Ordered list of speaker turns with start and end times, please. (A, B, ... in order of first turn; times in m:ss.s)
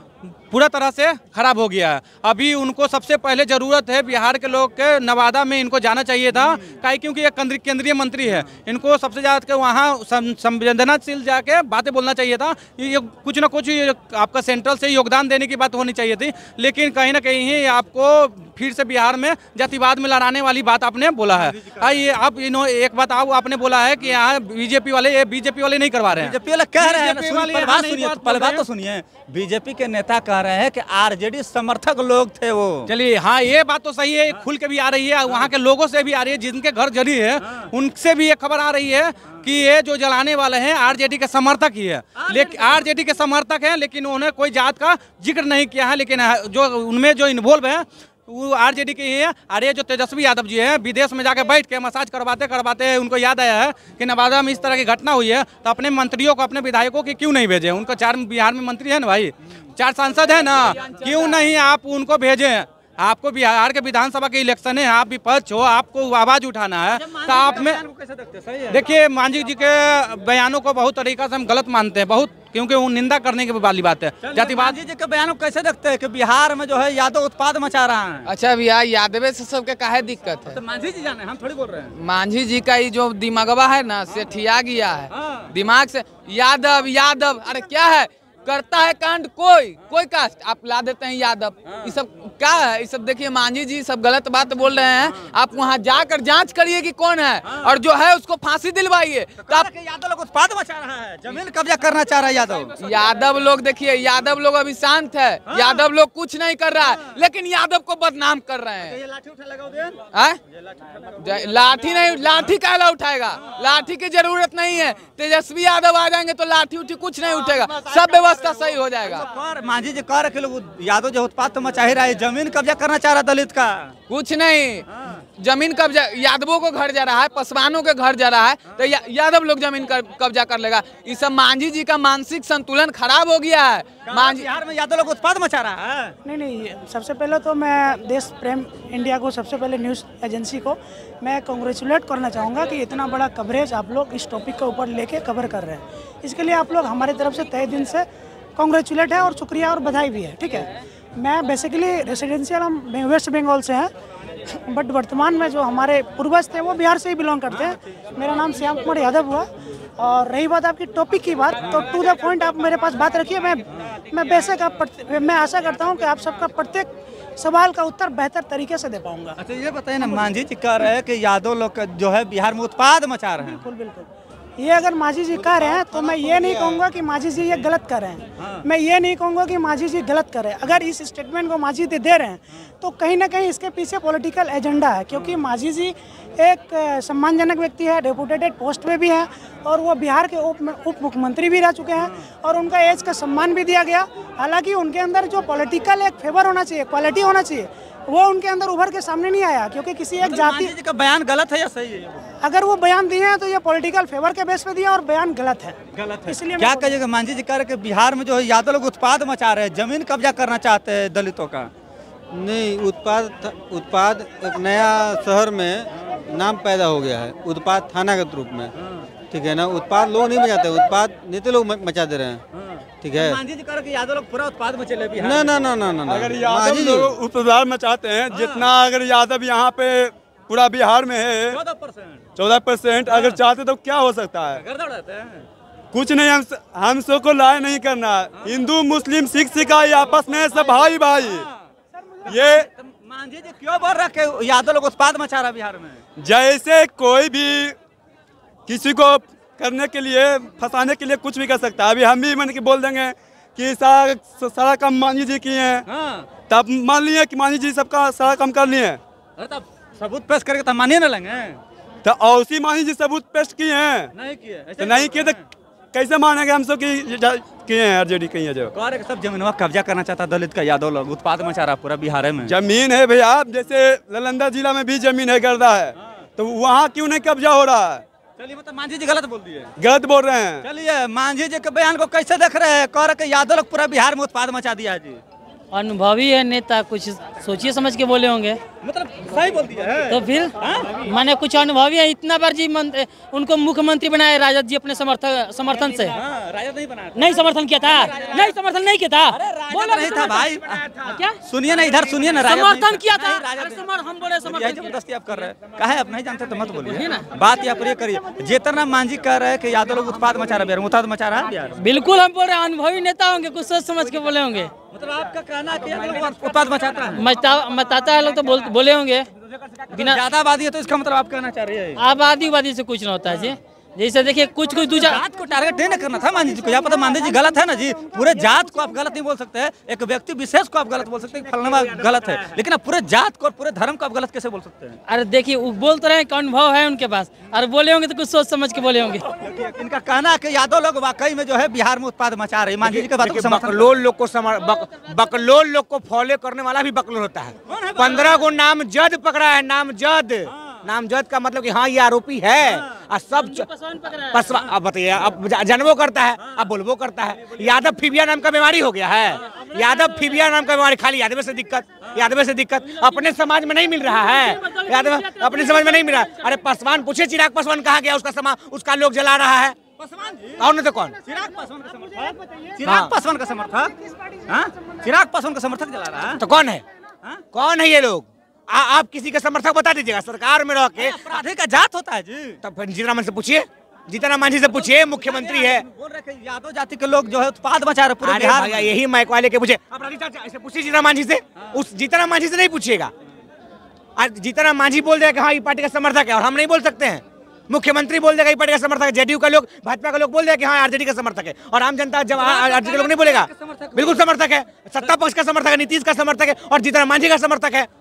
0:00.5-0:28.6 A
0:21.4-0:21.8 B
0:26.1-0:32.9 B
0:32.9-1:07.8 A
0:42.3-0:42.7 B
1:00.6-1:01.3 B
1:06.9-1:08.9 B
1:08.7-1:14.8 A
1:14.2-1:18.3 B
1:18.2-1:20.6 C
1:20.5-1:22.0 B
1:21.9-1:39.7 C
1:25.1-1:25.4 B
1:37.5-1:37.7 B
1:39.4-1:43.0 B
1:42.8-1:49.0 C
1:45.5-1:45.9 B
1:48.8-1:50.0 B
1:50.1-1:50.4 C
1:50.7-1:51.3 B
1:51.2-1:59.3 C
1:57.4-2:04.0 B
2:04.1-2:14.5 C
2:14.1-2:16.2 B
2:16.2-2:33.9 D
2:34.7-2:39.5 D
2:40.0-2:49.4 D
2:49.4-2:53.6 B
2:50.0-2:50.3 D
2:53.4-3:20.7 D
2:55.7-2:56.8 B
3:20.2-3:22.3 B
3:22.4-3:26.9 D
3:25.9-3:31.7 B
3:32.3-3:38.7 E
3:38.8-3:39.1 B
3:39.3-3:42.4 E
3:42.5-3:45.8 B
3:43.0-3:43.4 E
3:45.2-3:47.1 E
3:46.0-3:51.6 F
3:48.3-3:48.7 B
3:51.5-3:52.3 B
3:52.4-3:54.6 F
3:53.1-3:53.4 B
3:54.5-3:55.5 B
3:55.9-4:01.5 F
4:00.2-4:01.5 B
4:02.2-4:06.0 B
4:02.3-4:02.7 F
4:06.2-4:07.8 F
4:08.7-4:15.9 F
4:15.9-4:16.3 B
4:16.5-4:19.0 F
4:19.4-4:21.6 B
4:22.0-4:24.1 F
4:24.1-4:25.4 B
4:24.8-4:25.4 F
4:25.9-4:28.7 F
4:28.7-4:32.6 B
4:32.4-4:38.0 F
4:38.4-4:39.7 B
4:39.8-4:40.7 F
4:40.6-4:45.2 B
4:45.7-4:48.6 G
4:48.8-4:50.9 B
4:50.1-4:56.2 G
4:56.0-4:57.3 B
4:57.2-5:00.5 G
4:58.0-4:58.4 B
4:59.3-5:03.9 B
5:01.0-5:01.4 G
5:02.4-5:05.0 G
5:04.4-5:11.8 B
5:06.9-5:07.3 G
5:11.8-5:14.7 G
5:14.9-5:17.2 B
5:17.1-5:19.3 G
5:19.9-5:22.0 B
5:19.9-5:20.2 G
5:22.0-5:25.2 G
5:24.9-5:35.0 B
5:25.8-5:29.1 D
5:35.1-5:39.2 G
5:39.3-5:43.9 B
5:42.8-6:09.8 H
5:47.7-5:48.5 B
5:53.4-5:54.4 G
6:04.2-6:06.6 G
6:10.0-6:10.7 B
6:10.6-6:11.2 H
6:11.2-6:14.0 B
6:12.2-6:12.7 D
6:12.8-6:13.1 H
6:14.5-6:16.4 B
6:16.4-6:16.8 H
6:17.5-6:21.4 H
6:21.0-6:22.6 B
6:22.6-6:25.9 H
6:24.7-6:29.0 B
6:28.2-6:33.1 H
6:34.2-6:47.9 H
6:42.3-6:44.3 B